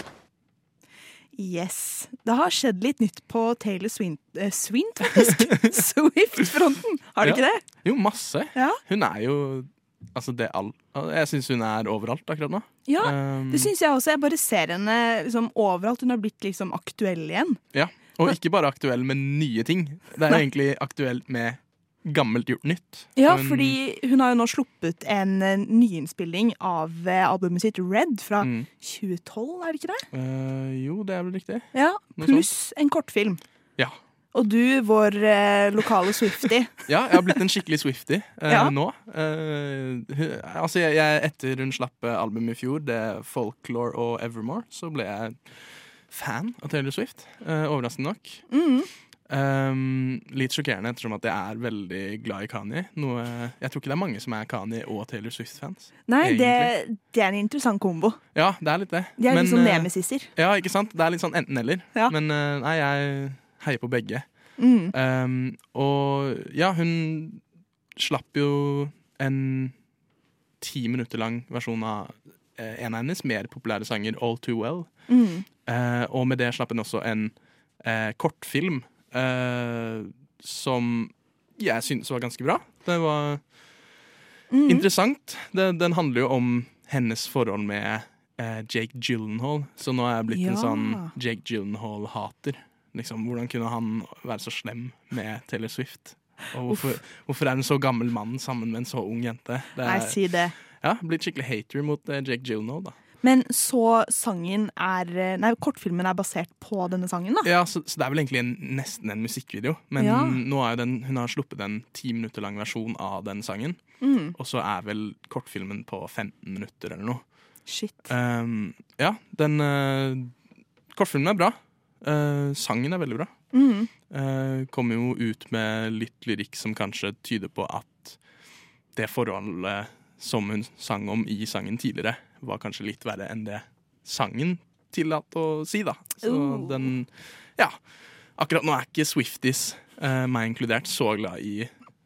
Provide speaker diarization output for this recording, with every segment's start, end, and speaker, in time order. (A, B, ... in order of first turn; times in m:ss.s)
0:01.4-0:07.6 A
0:05.4-0:05.8 B
0:07.2-0:13.7 B
0:12.9-0:17.6 A
0:17.7-0:23.8 B
0:23.2-0:30.0 A
0:28.4-0:28.7 B
0:30.1-0:32.5 B
0:31.7-0:33.4 A
0:34.3-0:36.7 A
0:36.9-0:48.4 B
0:38.5-0:38.7 A
0:48.5-0:48.9 A
0:49.3-0:56.7 B
0:56.0-0:58.2 A
0:58.3-1:04.2 B
0:59.2-1:00.3 A
1:04.6-1:04.9 A
1:04.9-1:07.4 B
1:08.0-1:09.8 B
1:10.6-1:15.0 B
1:15.1-1:15.4 A
1:15.6-1:23.4 B
1:24.5-1:24.9 A
1:24.6-1:43.0 B
1:30.3-1:31.1 A
1:36.7-1:37.0 A
1:39.8-1:40.5 A
1:43.2-1:47.5 A
1:47.4-1:53.8 B
1:50.0-1:50.4 A
1:54.0-1:54.4 A
1:54.4-1:57.2 B
1:57.7-1:58.0 A
1:58.1-2:00.3 B
2:00.9-2:03.4 B
2:03.5-2:03.9 A
2:04.1-2:08.2 B
2:08.9-2:17.8 B
2:16.2-2:16.8 A
2:18.4-2:21.7 B